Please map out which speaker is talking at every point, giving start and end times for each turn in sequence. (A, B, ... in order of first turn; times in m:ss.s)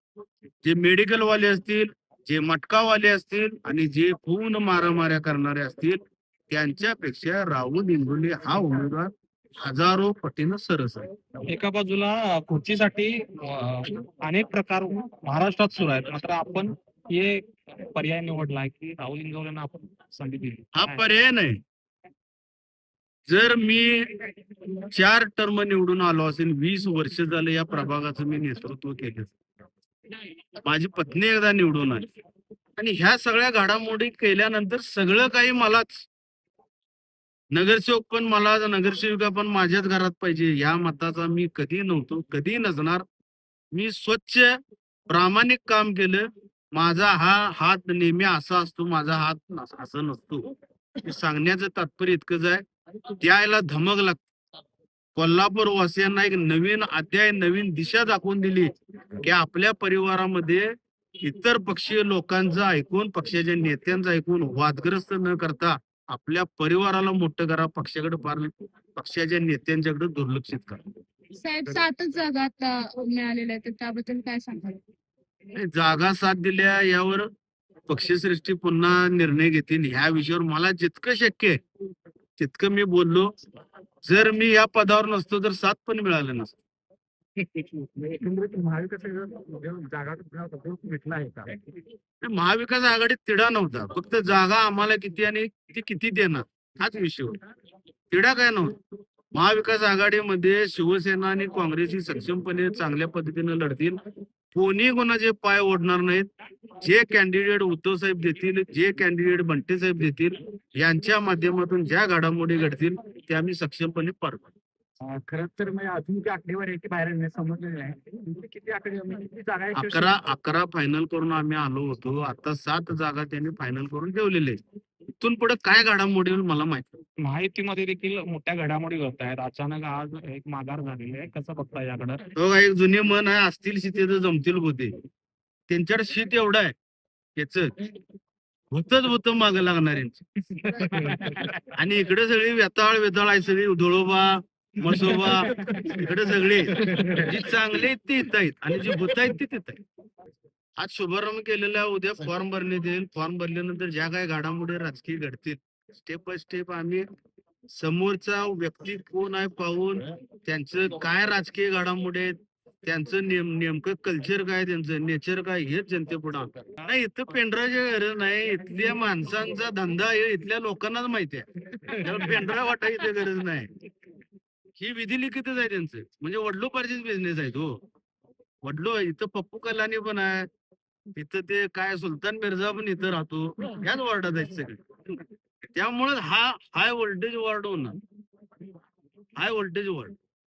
0:00.6-0:11.1 A
0:11.5-0:21.1 B
0:20.8-0:21.6 A
0:23.3-0:24.1 A
0:24.9-0:29.4 A
0:30.6-0:32.1 A
0:32.8-0:36.1 A
0:37.5-0:43.0 A
0:43.7-0:44.6 A
0:45.1-0:50.5 A
0:51.0-0:52.6 A
0:53.2-0:54.2 A
0:55.2-1:00.7 A
1:01.2-1:10.8 A
1:11.4-1:14.8 C
1:15.6-1:17.3 A
1:17.9-1:21.6 A
1:22.4-1:23.3 A
1:24.0-1:26.6 A
1:27.4-1:31.6 B
1:32.2-1:37.4 A
1:38.1-1:38.8 A
1:39.3-1:44.0 A
1:44.5-1:46.3 A
1:46.8-1:54.5 A
1:55.0-2:00.2 B
1:59.7-2:04.6 A
2:05.2-2:06.9 A
2:07.2-2:12.2 B
2:12.4-2:14.9 A
2:15.7-2:16.7 A
2:17.4-2:17.7 A
2:18.7-2:20.2 A
2:20.5-2:21.6 B
2:21.8-2:29.8 A
2:24.9-2:26.0 B
2:26.7-2:27.3 B
2:30.8-2:37.0 A
2:37.7-2:53.7 A
2:54.8-2:57.8 A
2:58.6-3:00.5 A
3:01.2-3:05.2 A
3:05.7-3:08.0 A
3:09.4-3:10.2 A